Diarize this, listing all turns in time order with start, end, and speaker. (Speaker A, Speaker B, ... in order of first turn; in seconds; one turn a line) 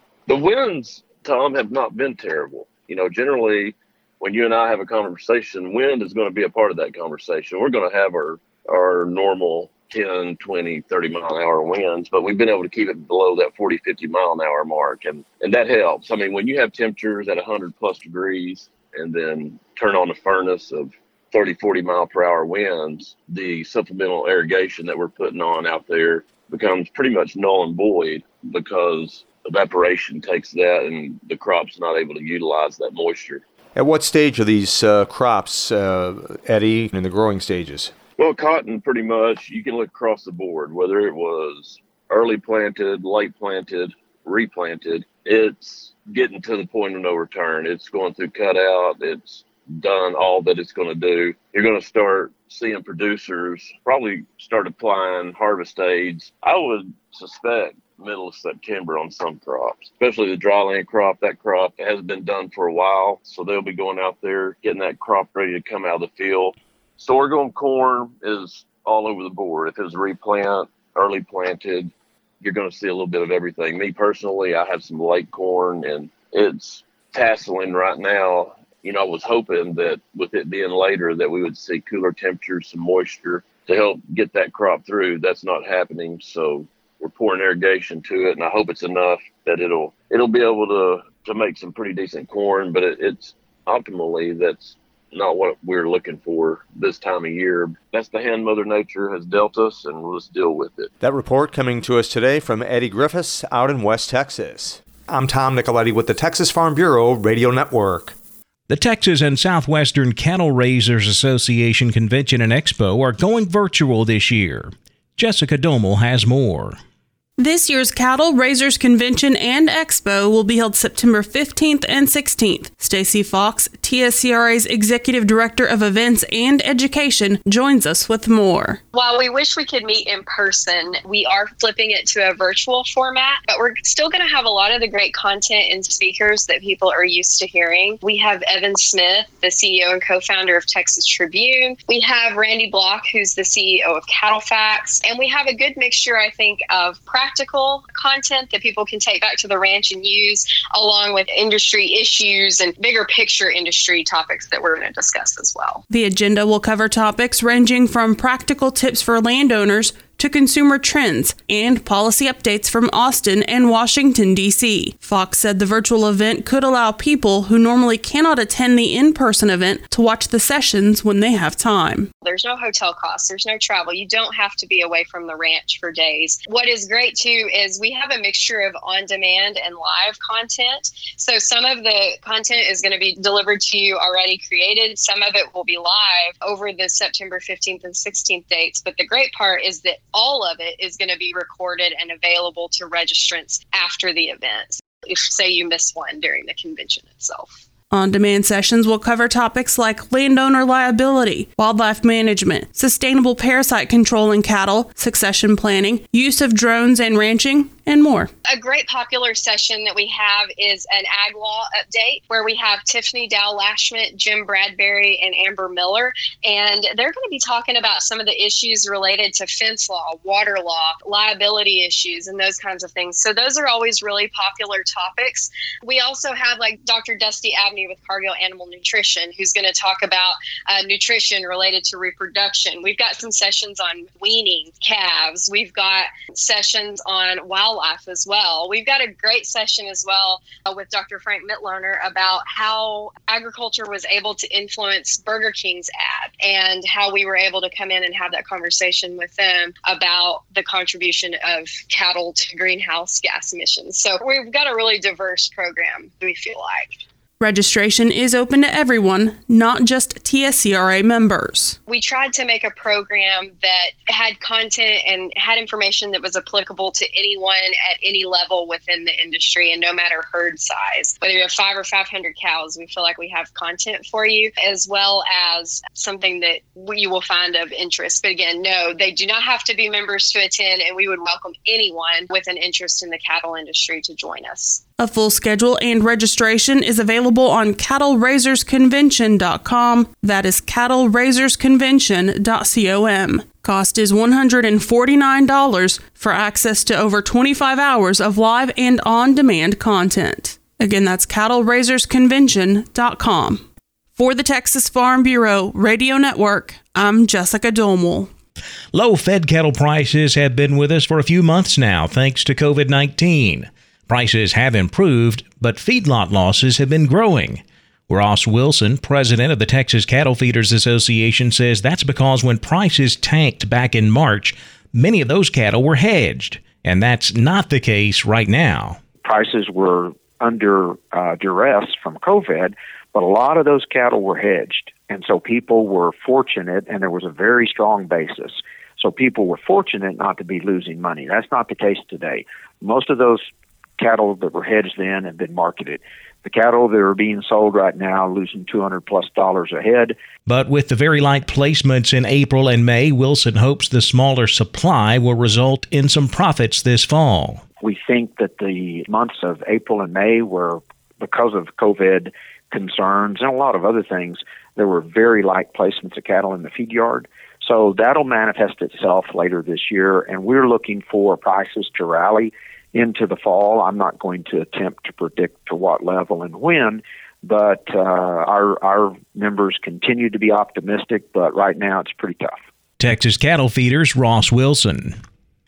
Speaker A: 0.3-33.4
Speaker B: 33.8-37.9
Speaker A: 38.2-100.9
Speaker B: 101.0-108.2
Speaker C: 108.7-116.8
Speaker D: 117.4-128.8
Speaker E: 128.9-155.8
Speaker D: 155.9-172.1
Speaker E: 172.2-197.5
Speaker D: 197.9-208.3
Speaker E: 208.5-257.0
Speaker D: 257.4-261.8
Speaker E: 261.9-284.8
Speaker D: 285.0-303.6
Speaker D: 304.1-308.3
Speaker C: 308.9-329.0
Speaker F: 329.2-343.5
Speaker F: 344.0-350.2
Speaker C: 350.4-357.6
Speaker F: 357.8-382.6
Speaker C: 383.0-385.2